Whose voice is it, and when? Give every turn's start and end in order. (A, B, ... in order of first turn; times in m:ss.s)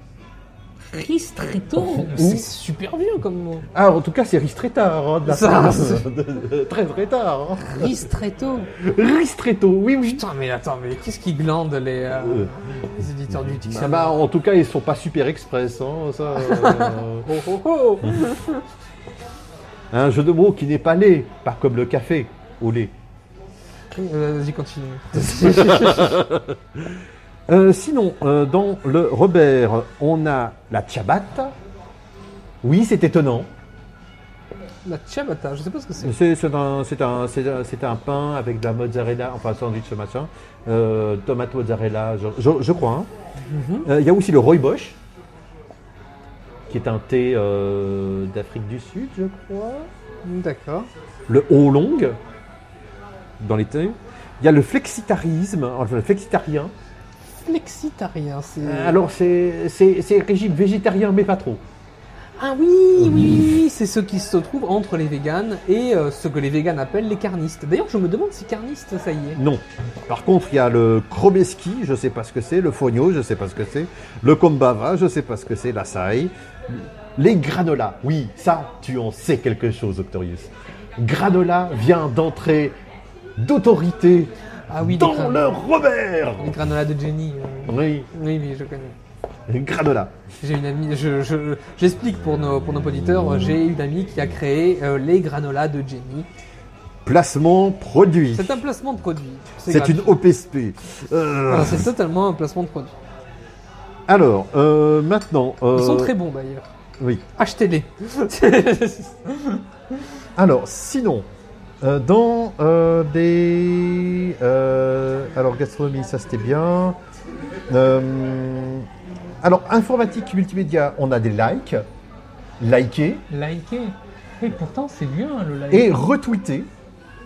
0:00.9-0:03.7 A
0:01.8-0:02.5 B
0:03.7-0:08.0 B
0:05.2-0:06.0 A
0:07.6-0:08.7 A
0:08.8-0:10.2 B
0:10.1-0:14.2 A
0:13.7-0:17.2 B
0:16.4-0:18.6 A
0:19.9-0:22.9 B
0:23.9-0:26.2 A
0:25.2-0:26.4 B
0:27.5-0:31.5 B
0:32.6-0:33.5 B
0:34.8-0:36.2 A
0:36.0-0:43.1 B
0:43.5-0:43.9 A
0:43.8-0:45.0 B
0:46.7-0:49.9 B
0:50.2-0:50.9 A
0:51.3-0:52.2 B
0:53.4-0:56.7 B
0:57.4-0:59.0 A
0:58.6-1:01.6 B
1:02.4-1:09.4 A
1:09.4-1:22.7 B
1:23.4-1:26.5 B
1:24.7-1:25.6 A
1:26.4-1:29.0 A
1:27.7-1:28.1 B
1:29.5-1:30.1 B
1:30.4-1:36.3 A
1:37.0-1:38.6 B
1:38.3-1:40.2 A
1:39.7-1:41.9 B
1:41.5-1:42.9 A
1:44.1-1:46.1 B
1:45.7-1:46.7 A
1:47.4-1:49.6 A
1:50.4-1:51.3 B
1:51.8-1:57.0 B
1:57.7-1:58.8 B
1:59.4-2:01.8 B
2:02.6-2:03.2 B
2:03.3-2:06.1 A
2:05.7-2:06.7 B